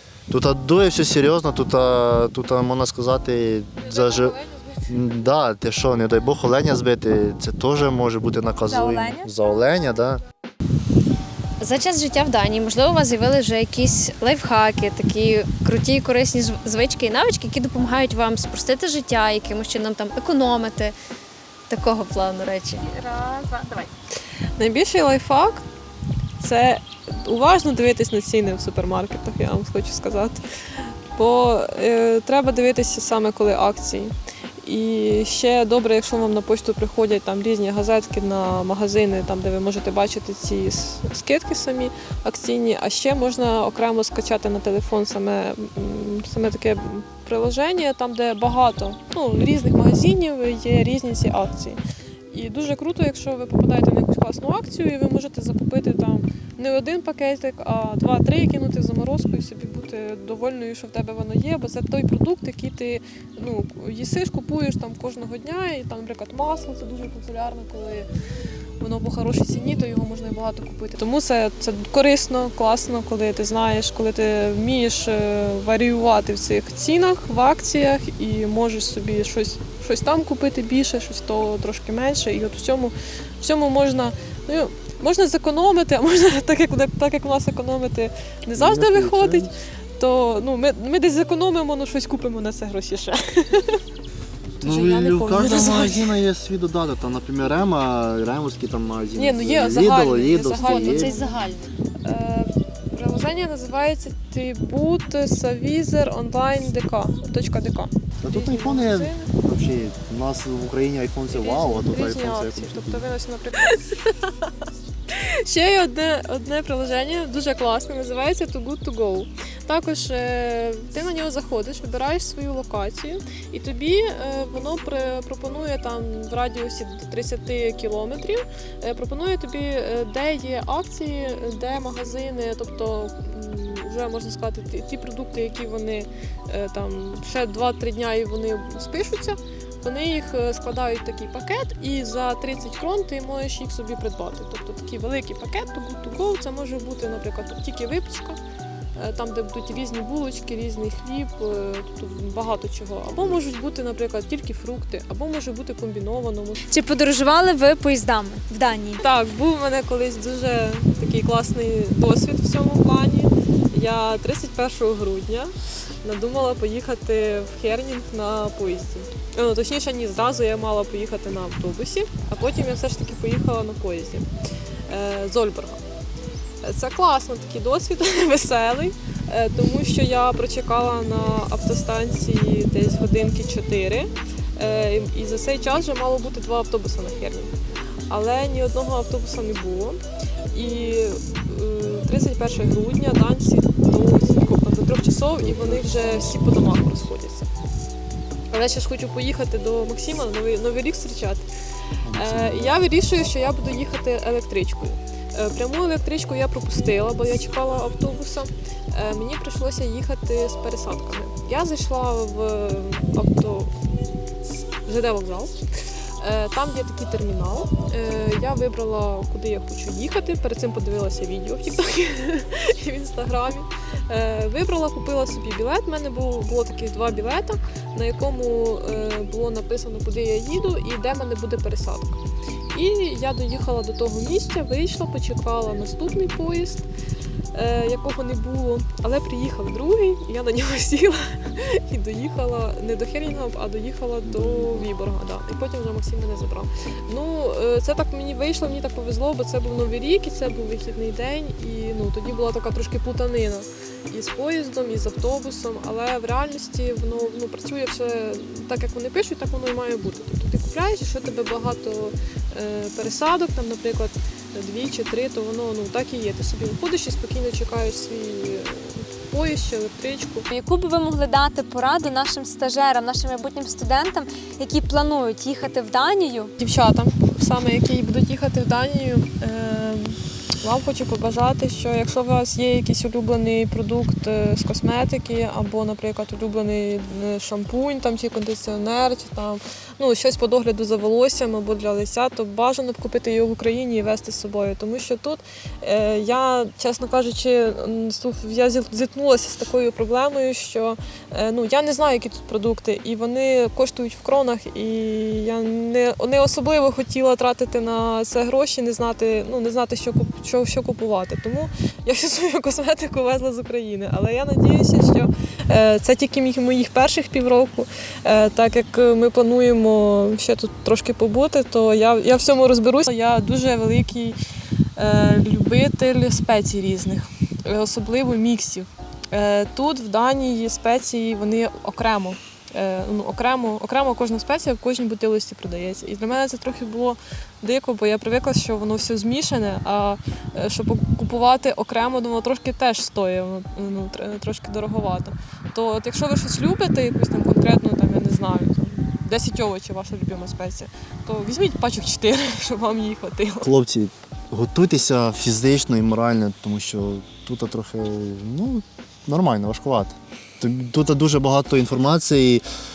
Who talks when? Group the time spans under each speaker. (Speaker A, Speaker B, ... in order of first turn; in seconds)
Speaker A: 0.3-4.4, 4.9-10.2, 88.5-89.5, 94.6-101.1, 108.2-113.0, 195.4-196.8, 202.0-202.8, 244.2-244.9, 353.6-362.6
Speaker B: 3.8-4.8, 24.6-25.6, 26.4-30.4, 31.1-68.1, 68.8-93.8, 94.6-96.2, 99.2-101.4, 102.0-109.3, 111.3-114.3, 115.1-148.4, 149.0-156.6, 159.0-174.3, 174.9-175.8, 176.6-187.5, 188.1-197.5, 198.5-201.5, 202.2-213.7, 214.8-215.6, 216.2-232.2, 232.7-236.9, 237.5-270.5, 276.6-324.4, 324.9-353.7
Speaker C: 8.7-9.3, 156.7-159.0, 270.5-276.5
Speaker D: 11.6-20.9, 21.7-23.9, 100.6-101.7